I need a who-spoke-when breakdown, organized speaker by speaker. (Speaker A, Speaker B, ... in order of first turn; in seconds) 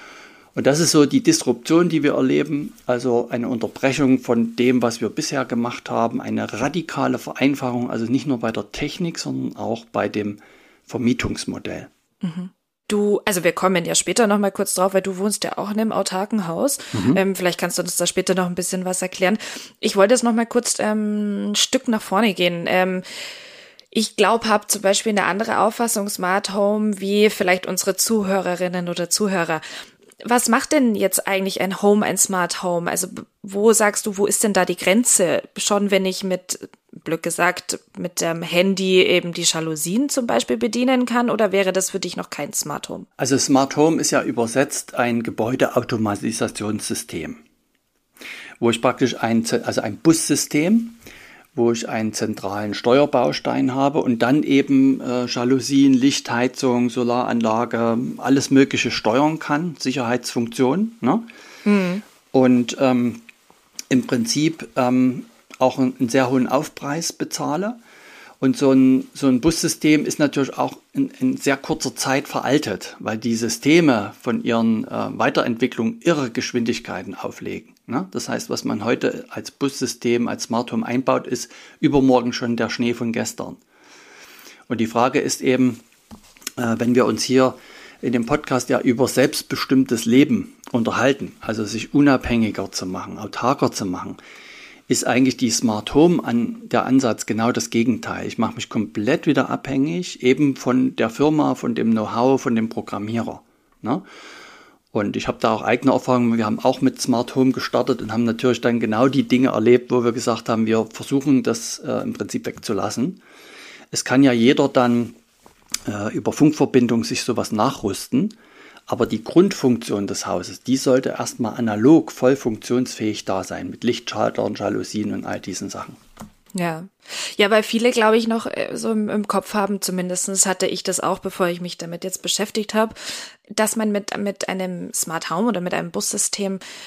Speaker A: 0.5-11.9, 16.9-17.2, 43.2-47.4, 48.6-51.0, 51.5-61.2, 62.3-63.2, 63.9-67.8, 68.4-83.6, 84.7-85.8, 86.6-94.2, 94.9-104.0, 104.9-113.2, 113.9-115.2, 115.8-118.3, 118.9-126.0
Speaker B: 12.2-23.0, 23.9-29.6, 30.2-43.1, 61.6-62.0, 126.5-136.6